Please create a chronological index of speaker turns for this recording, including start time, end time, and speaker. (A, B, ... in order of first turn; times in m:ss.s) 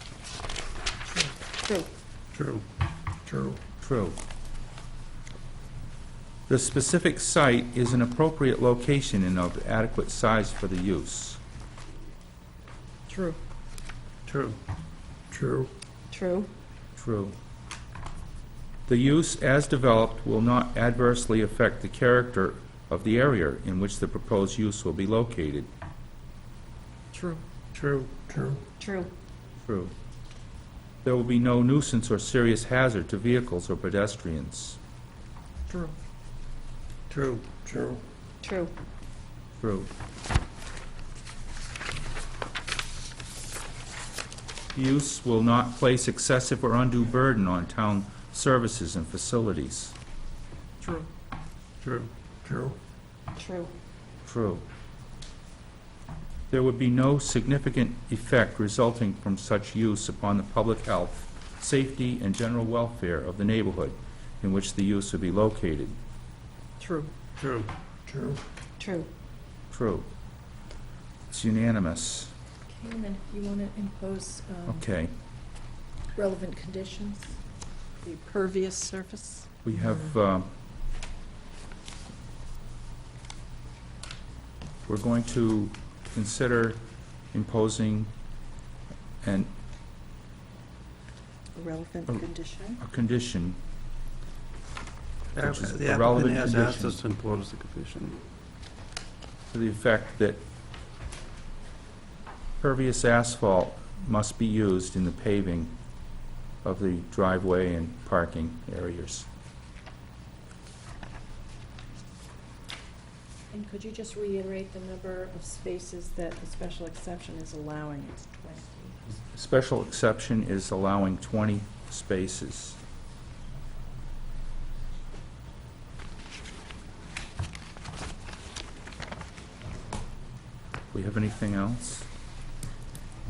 0:02.3-0:02.6 A
0:03.8-0:04.2 B
0:06.5-0:11.4 B
0:13.1-0:13.4 C
0:14.3-0:14.6 A
0:15.3-0:15.7 A
0:16.1-0:16.5 C
0:17.0-0:17.4 B
0:18.9-0:25.7 B
0:27.7-0:28.6 A
0:28.8-0:29.1 C
0:29.6-0:29.9 B
0:31.0-0:34.8 B
0:37.1-0:38.0 A
0:38.4-0:38.7 C
0:39.6-0:39.9 B
0:44.7-0:50.0 B
0:51.8-0:52.1 A
0:53.4-0:53.7 C
0:54.2-0:54.6 B
0:56.5-1:06.0 B
1:06.8-1:07.1 D
1:07.4-1:07.7 A
1:08.8-1:09.1 C
1:09.7-1:10.1 B
1:11.3-1:12.3 B
1:12.7-1:14.8 D
1:14.7-1:15.1 B
1:16.2-1:17.3 D
1:18.0-1:19.5 D
1:19.6-1:20.5 B
1:24.9-1:26.8 B
1:27.3-1:28.1 B
1:29.2-1:29.5 B
1:31.6-1:32.8 D
1:32.8-1:33.6 B
1:35.3-1:37.0 B
1:35.3-1:38.2 A
1:39.5-1:40.4 B
1:42.6-1:45.8 B
1:46.6-1:49.3 B
1:53.5-1:59.0 D
1:59.3-2:02.8 B
2:10.9-2:12.1 B